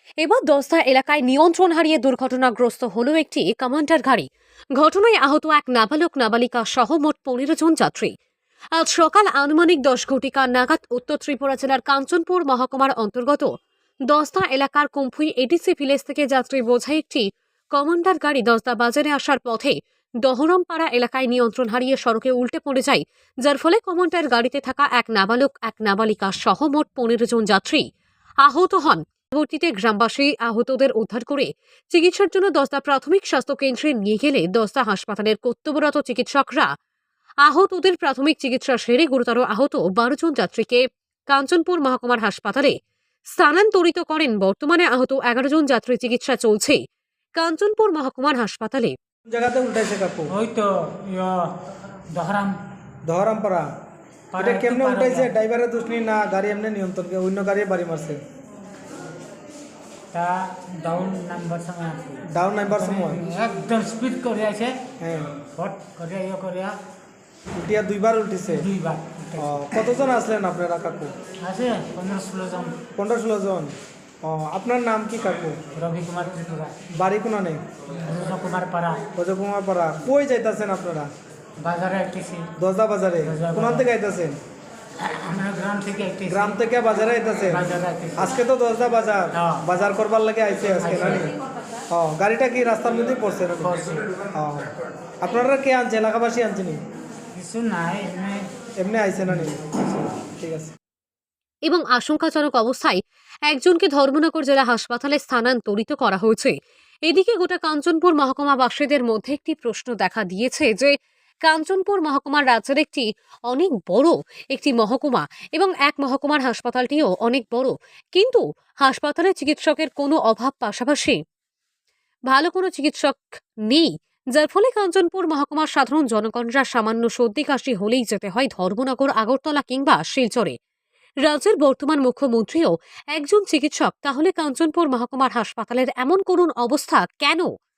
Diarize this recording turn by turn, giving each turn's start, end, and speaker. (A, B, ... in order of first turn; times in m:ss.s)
0:00.2-0:04.3 A
0:04.8-0:08.1 A
0:08.8-0:13.5 A
0:14.1-0:27.8 A
0:28.4-0:36.7 A
0:37.4-0:42.8 A
0:43.4-0:46.8 A
0:47.4-0:49.0 A
0:49.3-0:50.3 B
0:50.3-0:51.6 C
0:52.1-0:52.6 C
0:53.0-0:53.7 B
0:54.3-0:55.3 C
0:54.4-0:58.2 B
1:00.1-1:04.9 C
1:02.2-1:03.2 B
1:05.0-1:05.4 B
1:05.4-1:06.8 C
1:07.5-1:08.7 B
1:08.4-1:09.6 C
1:09.4-1:11.1 B
1:11.4-1:12.8 C
1:13.0-1:15.6 B
1:15.8-1:16.8 C
1:16.9-1:17.6 B
1:18.0-1:19.1 C
1:19.2-1:21.1 B
1:21.6-1:22.5 C
1:22.6-1:24.4 B
1:23.2-1:23.9 C
1:25.0-1:26.6 C
1:26.3-1:31.3 B
1:27.5-1:28.4 C
1:29.4-1:29.6 C
1:30.8-1:31.3 C
1:31.9-1:34.7 B
1:33.6-1:34.1 C
1:35.2-1:36.8 B
1:37.3-1:38.5 C
1:38.8-1:40.8 B
1:39.2-1:39.6 C
1:41.7-2:01.2 A
2:02.3-2:10.6 A
2:11.3-2:17.5 A